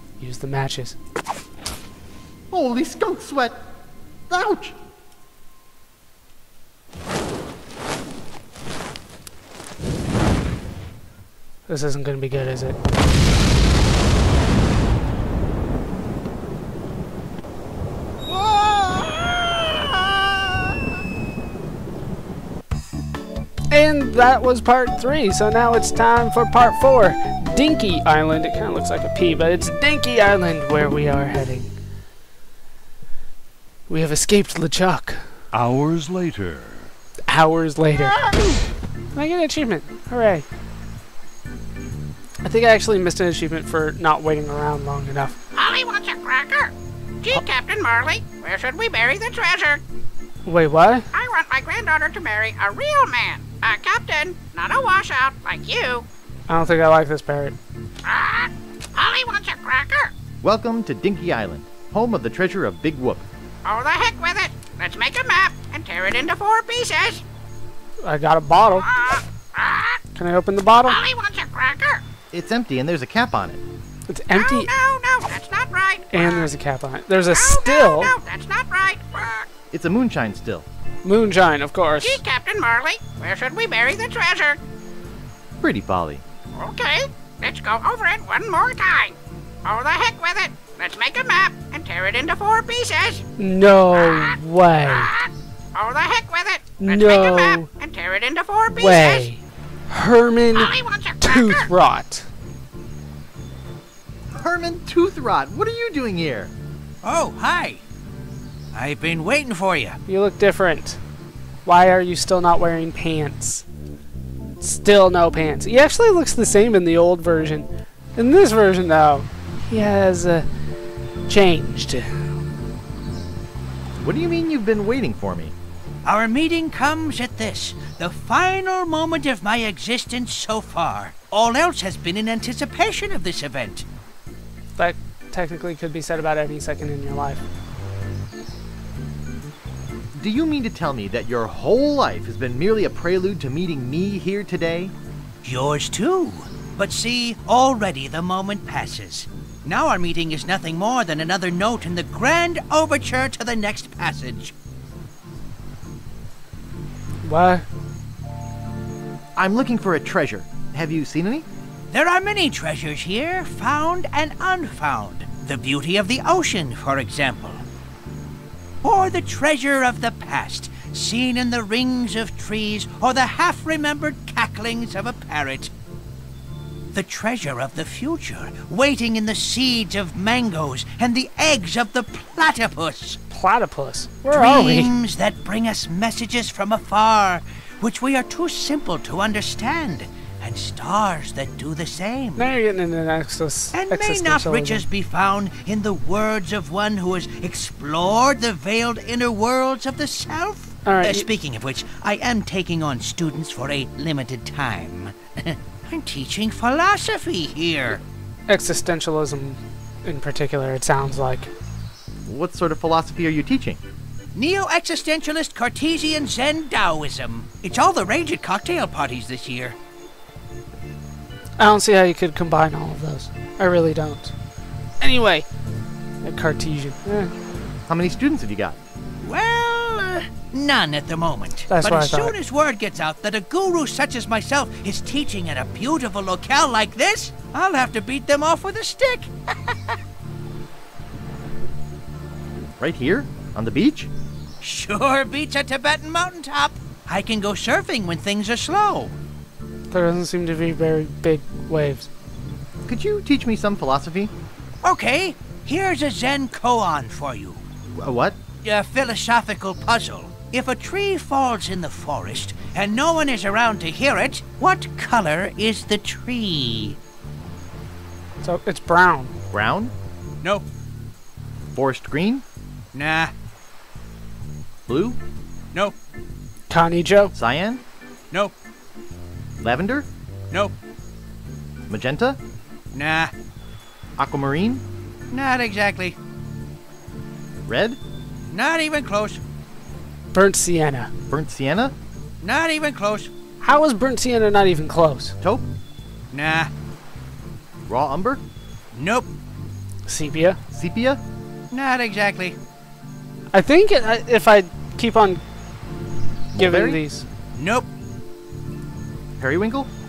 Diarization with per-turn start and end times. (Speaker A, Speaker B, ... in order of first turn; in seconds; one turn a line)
Speaker A: 0.2-1.0
Speaker B: 2.5-3.6
Speaker B: 4.3-4.8
Speaker A: 11.7-12.8
Speaker B: 18.3-20.7
Speaker A: 23.7-31.7
Speaker A: 33.9-35.2
Speaker B: 35.5-36.7
Speaker A: 37.3-38.2
Speaker A: 39.1-40.5
Speaker A: 42.4-45.4
Speaker C: 45.5-49.8
Speaker A: 50.5-51.1
Speaker C: 51.1-56.0
Speaker A: 56.5-57.6
Speaker C: 58.0-60.1
Speaker B: 60.4-63.2
Speaker C: 63.6-67.2
Speaker A: 68.0-68.9
Speaker C: 68.9-70.0
Speaker A: 70.2-71.0
Speaker C: 70.9-72.0
Speaker B: 72.3-73.6
Speaker A: 74.1-74.7
Speaker C: 74.3-76.5
Speaker A: 76.1-78.2
Speaker C: 77.3-79.5
Speaker B: 79.7-80.7
Speaker A: 81.0-82.2
Speaker C: 82.0-84.6
Speaker B: 85.6-86.2
Speaker C: 86.6-93.2
Speaker A: 93.4-95.1
Speaker C: 94.0-94.3
Speaker C: 94.9-99.3
Speaker A: 96.8-97.7
Speaker A: 98.7-102.3
Speaker C: 100.5-101.7
Speaker B: 104.3-106.5
Speaker D: 107.0-107.8
Speaker D: 108.7-110.0
Speaker A: 110.1-111.0
Speaker A: 111.7-113.6
Speaker A: 114.6-120.5
Speaker A: 121.3-122.3
Speaker B: 124.0-125.5
Speaker D: 126.0-133.8
Speaker A: 134.8-137.4
Speaker B: 140.2-144.9
Speaker D: 145.4-154.5
Speaker A: 157.2-157.7
Speaker B: 159.4-161.5
Speaker D: 161.9-167.6
Speaker D: 168.8-175.7
Speaker D: 176.9-183.2
Speaker A: 183.3-184.9
Speaker D: 184.3-192.5
Speaker A: 192.4-194.8
Speaker D: 193.7-208.0
Speaker A: 200.8-201.3
Speaker A: 208.5-211.5
Speaker B: 212.3-213.8
Speaker D: 214.3-219.8
Speaker A: 221.6-224.3
Speaker A: 225.0-225.5
Speaker A: 226.2-227.3
Speaker B: 227.9-228.8
Speaker D: 229.2-239.3
Speaker A: 231.7-232.4
Speaker B: 242.8-244.1
Speaker D: 244.6-249.2
Speaker A: 249.9-252.1
Speaker B: 252.9-254.3
Speaker D: 254.8-257.6
Speaker B: 257.9-258.4
Speaker D: 258.6-267.0
Speaker A: 268.4-269.3
Speaker B: 269.5-269.9
Speaker B: 271.8-272.4
Speaker D: 272.9-273.3
Speaker B: 274.9-275.2
Speaker A: 276.7-277.3
Speaker B: 277.3-277.8
Speaker B: 279.6-280.1
Speaker B: 281.9-282.4
Speaker D: 282.9-283.3
Speaker B: 284.2-284.8
Speaker D: 285.3-286.2
Speaker B: 287.7-288.0
Speaker D: 288.5-289.4
Speaker A: 290.3-291.1
Speaker B: 291.3-291.9
Speaker D: 292.4-293.3
Speaker A: 293.6-295.4
Speaker B: 295.4-295.7
Speaker D: 296.3-296.7
Speaker B: 297.9-298.4
Speaker D: 298.9-299.3
Speaker A: 300.1-300.6
Speaker B: 300.7-301.2
Speaker D: 301.7-302.6
Speaker A: 303.5-305.4
Speaker B: 306.6-307.0
Speaker A: 306.6-307.2
Speaker D: 307.6-307.9
Speaker B: 309.4-309.9